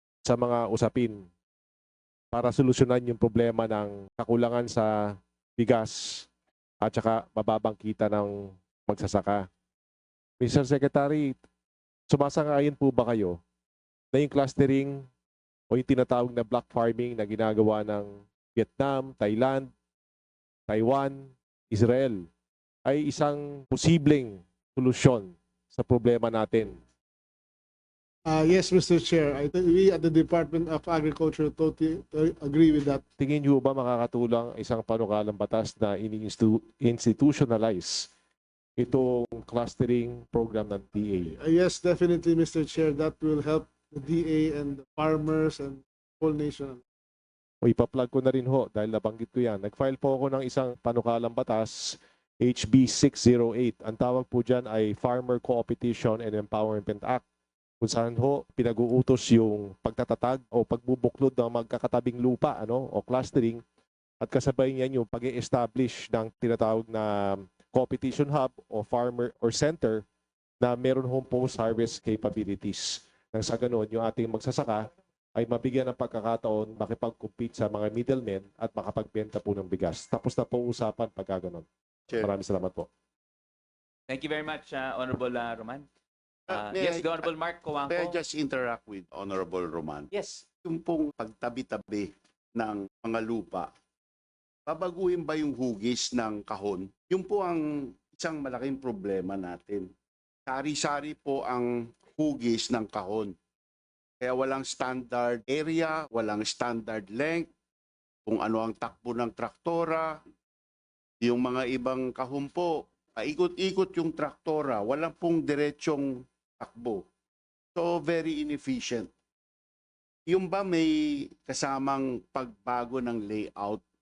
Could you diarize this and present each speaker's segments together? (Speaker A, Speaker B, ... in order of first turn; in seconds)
Speaker A: 0.2-1.2, 2.3-6.3, 6.8-9.4, 10.4-11.4, 12.1-13.4, 14.1-15.1, 15.7-19.7, 20.7-22.2, 22.9-26.8, 33.2-38.1, 38.8-41.4, 47.6-57.2, 57.8-63.6, 64.2-70.0, 70.6-82.9
Speaker B: 28.2-33.0, 41.3-46.8
Speaker C: 84.1-85.8, 86.5-88.2, 90.1-90.4
Speaker D: 86.5-87.3, 87.9-90.1, 90.6-93.7, 94.7-99.9, 100.5-103.3, 104.2-107.5, 108.2-110.2, 111.2-117.0, 117.7-119.1, 120.3-123.8